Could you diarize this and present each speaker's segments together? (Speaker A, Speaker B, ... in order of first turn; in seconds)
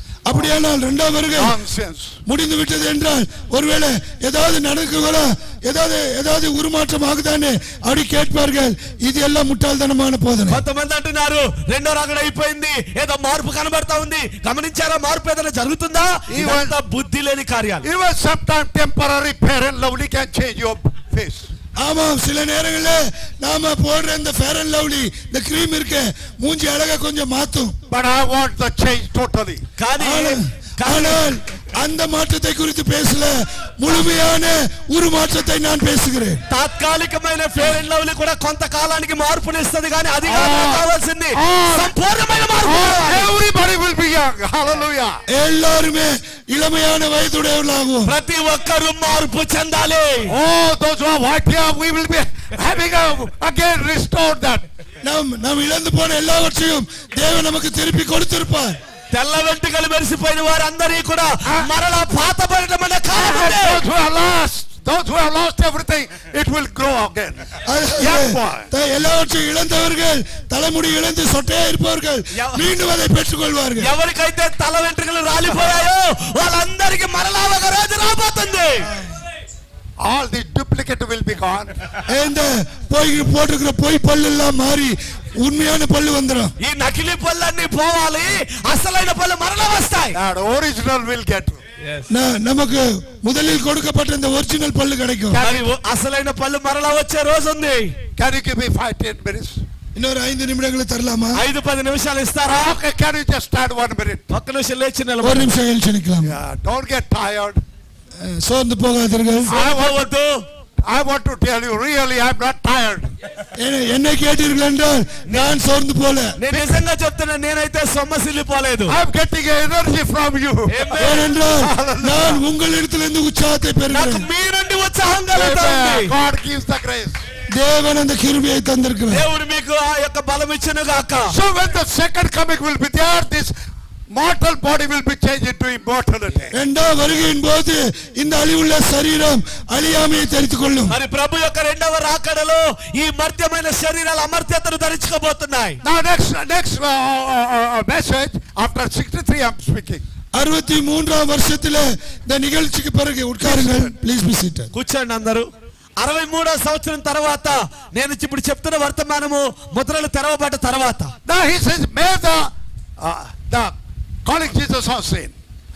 Speaker A: 0.3-1.6, 2.3-10.6, 21.8-27.8, 30.0-36.4, 45.3-48.1, 55.0-58.8, 67.7-73.9, 82.1-86.5, 92.1-95.4, 100.0-101.4, 105.2-106.3, 108.2-109.5, 113.6-116.4, 121.0-124.3, 127.5-129.2, 136.5-141.0, 150.3-154.7
Speaker B: 1.3-2.2, 16.3-16.8, 17.8-21.5, 27.9-29.6, 40.2-41.9, 42.6-45.2, 50.3-54.7, 61.4-61.7, 63.1-68.7, 80.0-81.7, 90.1-91.6, 95.3-95.7, 98.2-99.6, 102.5-104.3, 106.2-107.6, 109.5-110.0, 110.8-113.1, 118.9-122.4, 125.3-127.2, 131.3-133.5, 134.1-136.5, 145.8-150.0, 153.4-153.9, 161.3-165.3
Speaker C: 10.5-17.9, 29.8-31.2, 36.5-43.3, 48.1-50.3, 59.1-63.8, 72.3-72.7, 73.8-78.9, 86.6-90.2, 91.8-92.1, 95.4-98.0, 101.3-102.8, 104.3-105.5, 109.4-110.4, 115.3-115.5, 116.4-119.0, 120.7-121.3, 123.9-126.1, 129.1-131.3, 140.9-145.8, 154.7-161.1